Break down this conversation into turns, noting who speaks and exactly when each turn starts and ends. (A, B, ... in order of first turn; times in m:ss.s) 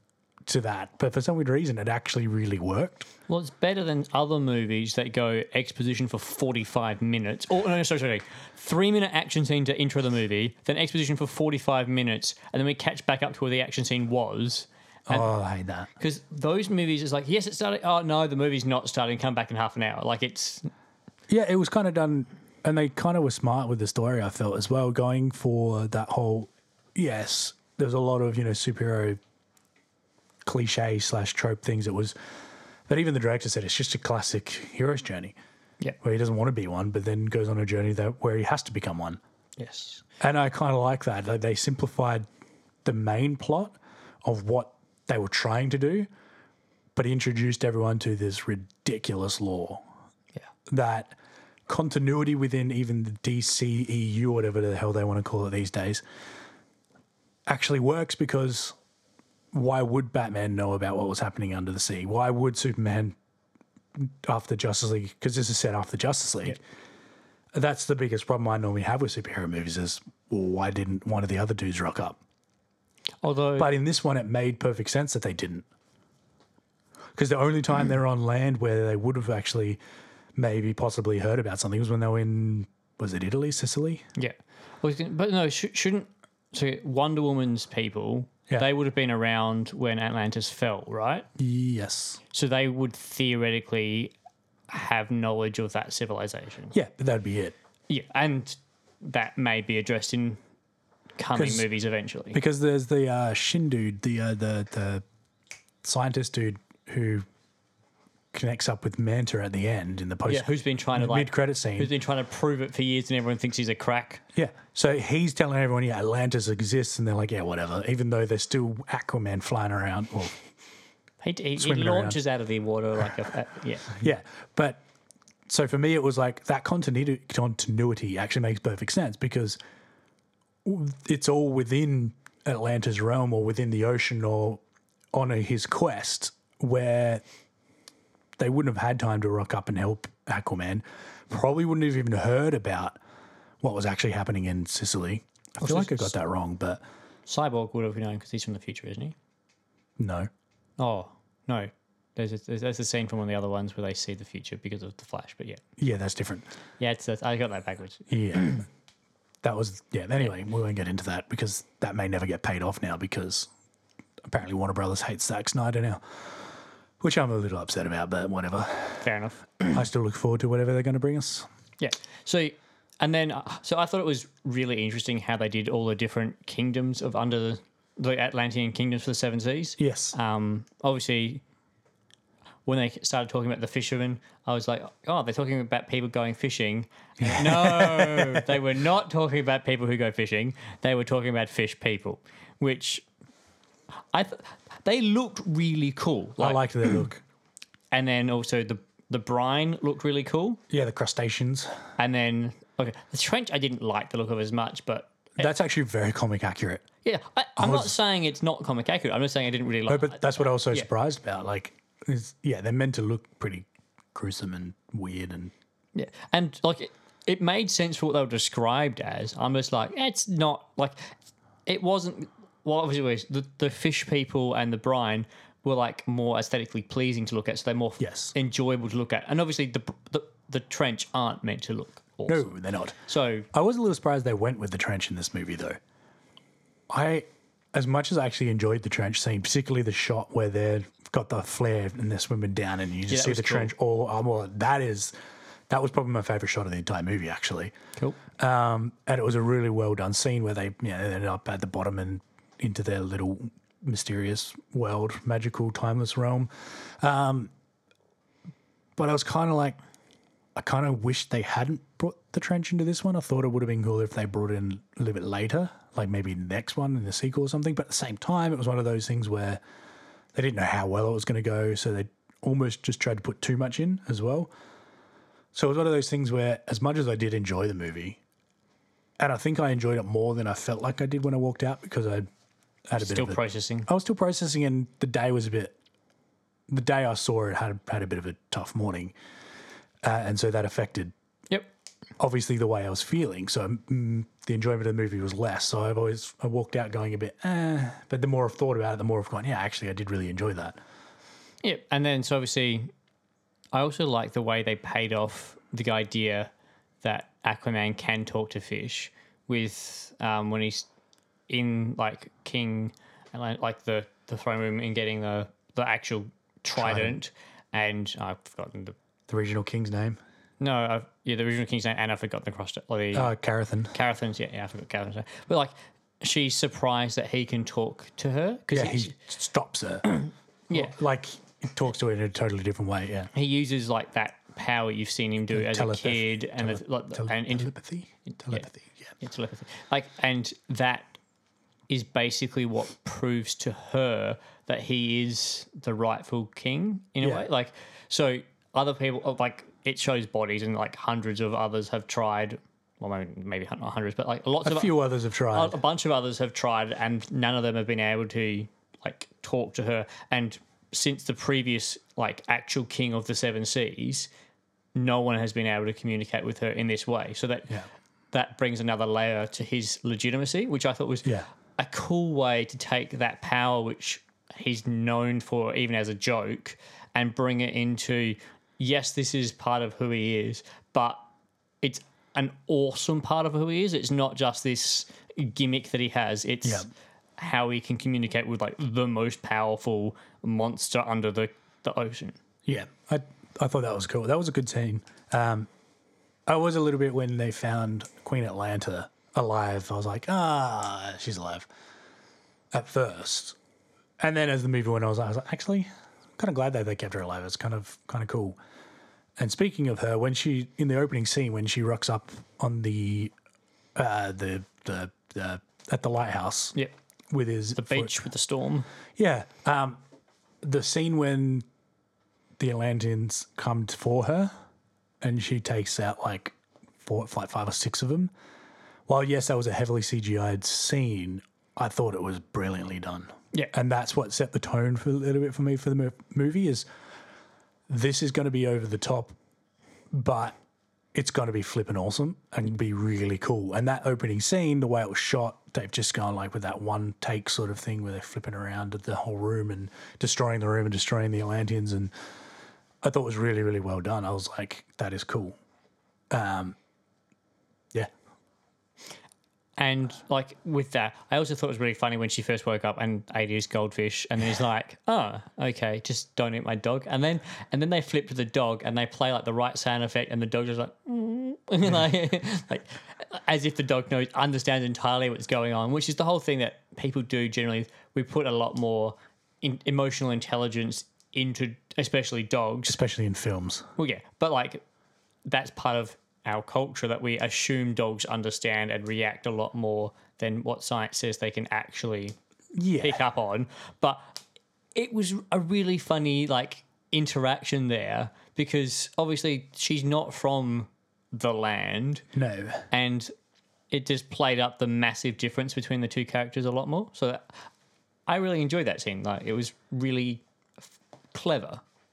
0:00.5-0:03.1 A
0:03.3-0:15.3 B
0:15.1-0:15.9 A
0:16.0-0:20.7 B
0:21.3-0:29.2 A
0:30.4-0:32.2 A
0:32.9-0:35.4 A
0:36.0-0:39.2 A
0:39.6-0:40.0 B
0:40.2-0:42.2 A
0:42.8-0:46.1 A
0:47.0-0:49.8 A
0:50.7-0:51.1 A
0:51.7-0:56.0 A
0:57.5-0:58.8 A
0:59.5-1:03.2 A
1:04.0-1:06.6 A
1:07.5-1:12.2 A
1:13.2-1:13.7 B
1:13.6-1:15.7 A
1:17.2-1:19.8 A
1:20.4-1:24.0 A
1:24.2-1:31.3 B
1:31.4-1:32.2 A
1:32.3-1:34.1 B
1:34.7-1:36.8 B
1:36.7-1:37.6 A
1:37.9-1:40.4 B
1:41.2-1:42.4 B
1:41.4-1:41.7 A
1:42.3-1:45.0 A
1:45.8-1:47.2 A
1:48.3-1:51.9 A
1:50.3-1:54.2 B
1:54.4-2:00.4 A
2:01.2-2:04.0 B
2:01.6-2:02.2 A
2:03.9-2:04.8 A
2:05.5-2:09.6 A
2:10.6-2:14.6 A
2:15.1-2:17.2 A
2:18.4-2:23.0 A
2:23.6-2:26.8 A
2:25.6-2:26.1 B
2:27.3-2:29.2 B
2:30.0-2:30.3 A
2:30.8-2:35.6 B
2:35.8-2:36.5 A
2:36.8-2:38.6 B
2:38.1-2:38.6 A
2:39.4-2:43.5 A
2:44.3-2:46.0 A
2:47.0-2:49.1 A
2:49.0-2:49.8 B
2:49.7-2:51.4 A
2:51.8-3:01.4 B
2:59.8-3:00.2 A
3:02.7-3:13.0 B
3:07.2-3:08.6 A
3:14.1-3:16.7 B
3:16.4-3:17.2 A
3:17.9-3:20.6 B
3:20.7-3:21.7 A
3:22.0-3:25.4 B
3:25.4-3:26.9 A
3:27.0-3:30.9 B
3:27.6-3:27.9 A
3:29.9-3:35.5 A
3:36.0-3:41.1 B
3:41.7-3:52.5 B
3:48.0-3:48.4 A
3:52.3-3:53.0 A
3:53.1-3:53.5 B
3:53.5-3:55.8 A
3:56.9-4:05.1 A
4:03.1-4:03.7 B
4:05.7-4:07.7 A
4:08.4-4:17.5 A
4:19.0-4:19.8 A
4:20.6-4:29.6 A
4:30.3-4:34.5 A
4:35.5-4:38.2 A
4:39.2-4:42.3 A
4:42.9-4:45.8 A
4:43.0-4:43.9 B
4:46.7-4:49.1 A
4:50.0-4:51.1 A
4:52.2-5:00.8 A
5:01.6-5:02.9 B
5:03.7-5:06.5 B
5:07.0-5:10.9 B
5:11.5-5:19.0 B
5:16.8-5:17.2 A
5:19.3-5:20.2 A
5:20.6-5:23.3 B
5:23.1-5:23.9 A
5:23.9-5:29.1 B
5:28.7-5:30.1 A
5:30.1-5:31.0 B
5:30.7-5:33.3 A
5:33.3-5:37.7 B
5:35.5-5:39.2 A
5:38.3-5:38.7 B
5:39.2-5:41.1 B
5:41.9-5:55.0 B
5:47.2-5:47.5 A
5:54.6-5:55.8 A
5:55.5-6:04.3 B
6:05.0-6:07.7 B
6:08.3-6:21.2 B
6:21.8-6:26.9 B
6:27.4-6:32.4 B
6:32.7-6:35.7 A
6:36.5-6:41.7 A
6:42.7-6:43.6 A
6:44.2-6:48.6 A
6:49.4-6:53.3 A
6:54.0-6:56.8 A
6:57.3-6:58.2 A
6:57.8-6:58.9 B
6:59.2-7:00.0 A
7:00.6-7:01.6 A
7:02.6-7:04.5 A
7:05.2-7:08.3 A
7:09.1-7:16.8 A
7:17.9-7:19.3 A
7:20.1-7:20.6 A
7:21.1-7:32.1 A
7:33.0-7:35.6 A
7:36.3-7:36.8 A
7:39.8-8:03.0 B
8:02.9-8:03.8 A
8:04.0-8:04.8 B
8:05.5-8:12.4 B
8:12.8-8:13.2 A
8:13.0-8:14.4 B
8:15.0-8:22.2 B
8:22.3-8:22.8 A
8:22.9-8:23.3 B
8:23.9-8:27.5 B
8:28.3-8:30.4 B
8:31.3-8:31.8 B